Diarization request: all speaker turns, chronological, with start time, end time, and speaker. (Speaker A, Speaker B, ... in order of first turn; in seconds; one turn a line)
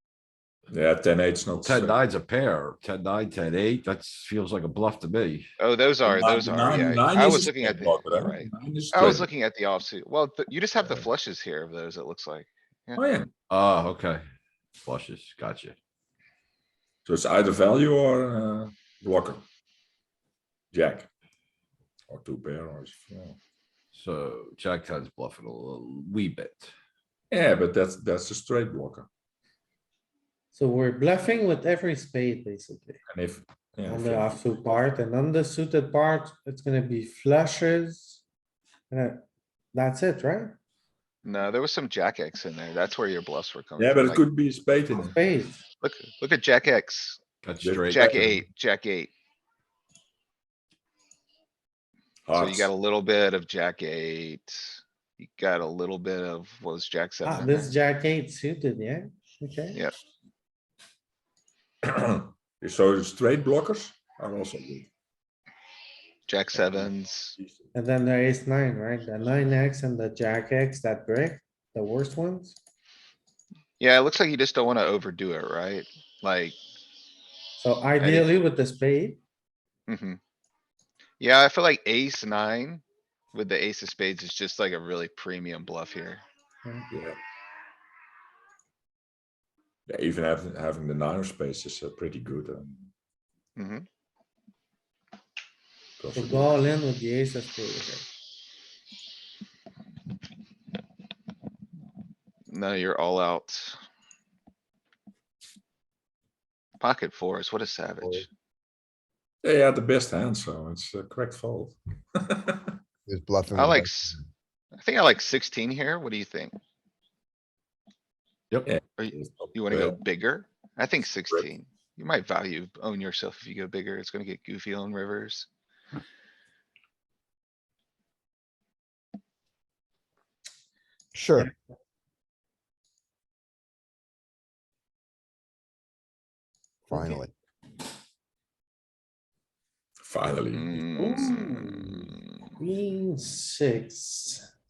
Speaker A: 0.7-2.0
Speaker B: 1.6-5.5
Speaker C: 5.6-13.0
Speaker A: 6.0-9.3
Speaker A: 10.8-11.1
Speaker A: 13.0-13.3
Speaker B: 13.5-14.2
Speaker B: 14.8-15.8
Speaker A: 17.1-19.4
Speaker A: 20.7-21.1
Speaker A: 22.1-23.4
Speaker B: 23.9-26.7
Speaker A: 27.3-29.1
Speaker D: 30.5-33.0
Speaker A: 33.1-35.0
Speaker D: 33.9-38.2
Speaker D: 38.9-39.2
Speaker D: 39.7-40.6
Speaker C: 41.2-44.2
Speaker A: 43.8-45.2
Speaker D: 44.9-45.6
Speaker C: 45.8-47.2
Speaker B: 47.4-48.4
Speaker A: 47.6-48.2
Speaker C: 47.9-49.1
Speaker A: 52.3-52.7
Speaker C: 52.3-57.7
Speaker D: 57.2-59.8
Speaker A: 61.9-64.9
Speaker C: 66.3-67.3
Speaker A: 66.5-67.6
Speaker D: 67.7-72.6
Speaker C: 73.8-76.6
Speaker D: 77.6-79.2
Speaker C: 78.0-78.4
Speaker C: 79.9-80.2
Speaker C: 81.2-86.2
Speaker A: 86.9-87.2
Speaker A: 89.9-92.9
Speaker C: 93.6-93.9
Speaker A: 96.0-96.6
Speaker D: 96.2-98.1
Speaker C: 102.5-103.8
Speaker C: 106.8-108.3
Speaker A: 109.4-112.6
Speaker E: 113.1-114.2
Speaker C: 113.5-114.2
Speaker C: 114.7-116.6
Speaker A: 118.7-120.0
Speaker C: 119.0-125.5
Speaker E: 131.1-131.5
Speaker E: 136.9-137.3
Speaker D: 136.9-137.2
Speaker A: 140.0-140.8
Speaker C: 140.5-142.2
Speaker D: 141.0-144.5